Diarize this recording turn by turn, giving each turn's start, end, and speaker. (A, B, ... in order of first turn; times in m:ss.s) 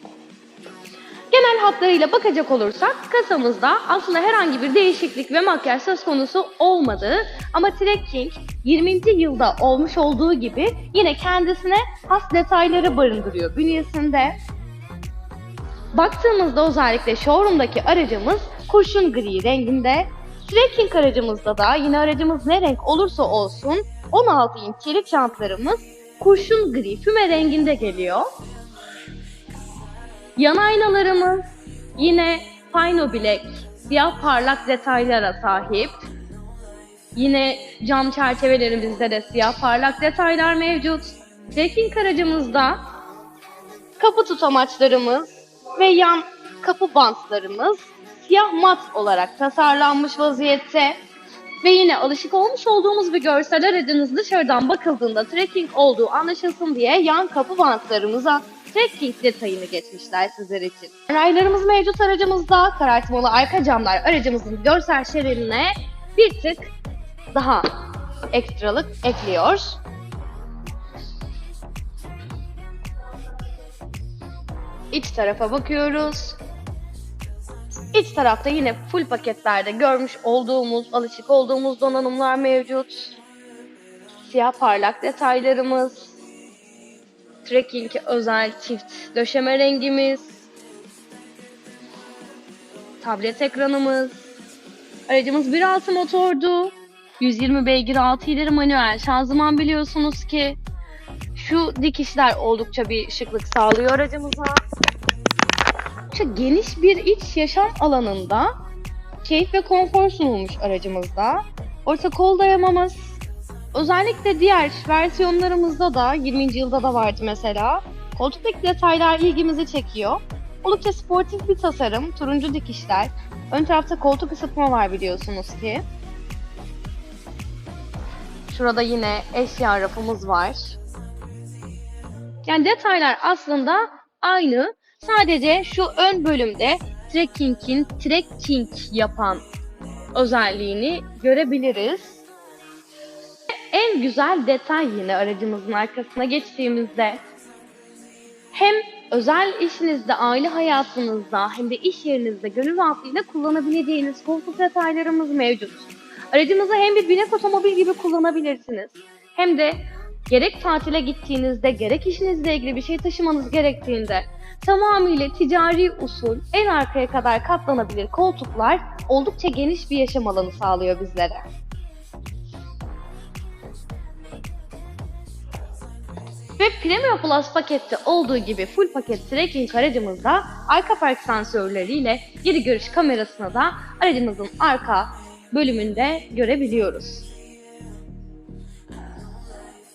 0:01.3-0:14.3 A
0:15.9-0:28.3 A
0:30.4-0:31.4 A
0:32.0-0:36.0 A
0:37.1-0:42.8 A
0:44.0-0:51.0 A
0:51.6-1:06.7 A
1:07.3-1:09.8 A
1:14.9-1:16.4 A
1:17.9-1:23.2 A
1:24.2-1:26.2 A
1:27.4-1:30.5 A
1:33.0-1:34.3 A
1:35.1-1:40.6 A
1:41.3-1:44.6 A
1:46.1-1:48.5 A
1:49.2-1:53.2 A
1:53.7-2:05.8 A
2:08.5-2:10.8 A
2:12.4-2:19.4 A
2:20.1-2:22.2 A
2:23.7-2:27.2 A
2:28.5-2:39.8 A
2:40.3-2:51.4 A
2:56.6-3:07.3 A